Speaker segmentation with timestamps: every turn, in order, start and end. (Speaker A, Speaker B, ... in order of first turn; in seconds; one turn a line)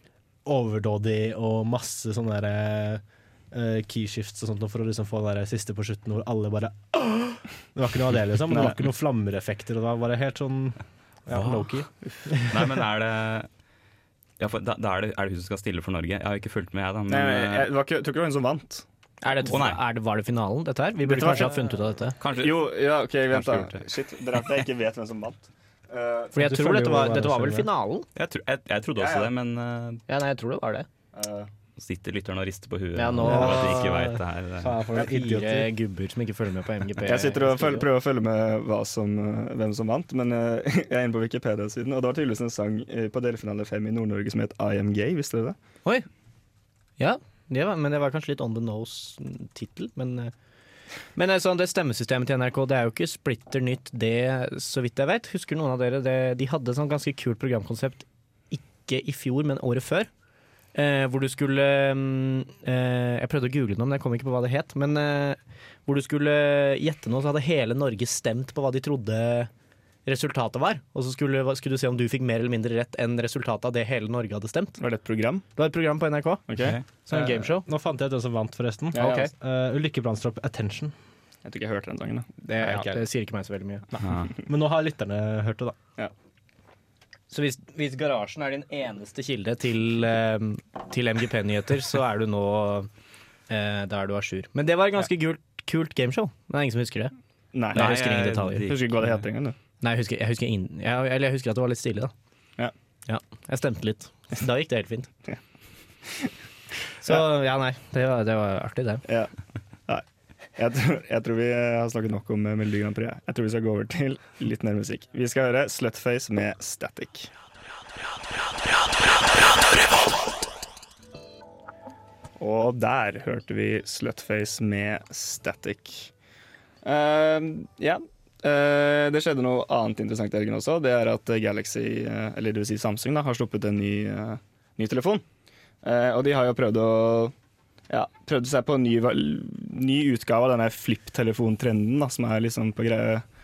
Speaker A: 0.4-12.5
Speaker B: 8.5-8.8
Speaker C: 11.3-11.7
Speaker C: 12.3-13.5
Speaker C: 14.4-17.7
Speaker B: 17.1-18.8
Speaker D: 19.2-22.2
Speaker C: 19.4-19.8
Speaker B: 21.1-21.5
Speaker A: 21.1-21.6
Speaker C: 22.2-22.6
Speaker B: 22.3-26.3
Speaker C: 23.3-23.8
Speaker D: 26.3-28.1
Speaker A: 26.4-27.7
Speaker C: 28.1-30.0
Speaker B: 28.9-29.3
Speaker D: 30.1-30.9
Speaker B: 31.1-31.5
Speaker C: 31.8-34.7
Speaker D: 32.9-33.9
Speaker A: 33.2-35.7
Speaker D: 34.6-37.9
Speaker B: 37.0-45.5
Speaker D: 47.0-50.3
Speaker D: 51.1-60.1
Speaker D: 60.7-69.5
Speaker D: 70.0-74.8
Speaker B: 74.8-75.4
Speaker D: 75.5-77.7
Speaker B: 76.5-76.8
Speaker A: 77.1-80.9
Speaker B: 78.9-79.2
Speaker D: 79.0-79.3
Speaker B: 81.4-82.3
Speaker D: 82.4-83.8
Speaker A: 82.6-83.0
Speaker A: 84.0-85.8
Speaker C: 84.0-84.3
Speaker D: 87.3-92.9
Speaker D: 93.5-97.1
Speaker B: 97.5-98.0
Speaker D: 97.7-98.7
Speaker C: 97.7-99.1
Speaker B: 98.6-99.5
Speaker D: 99.8-102.1
Speaker D: 103.1-105.1
Speaker D: 107.0-109.0
Speaker B: 109.1-109.3
Speaker B: 110.5-117.3
Speaker B: 122.4-126.1
Speaker B: 126.8-135.2
Speaker B: 135.8-137.3
Speaker B: 137.9-143.2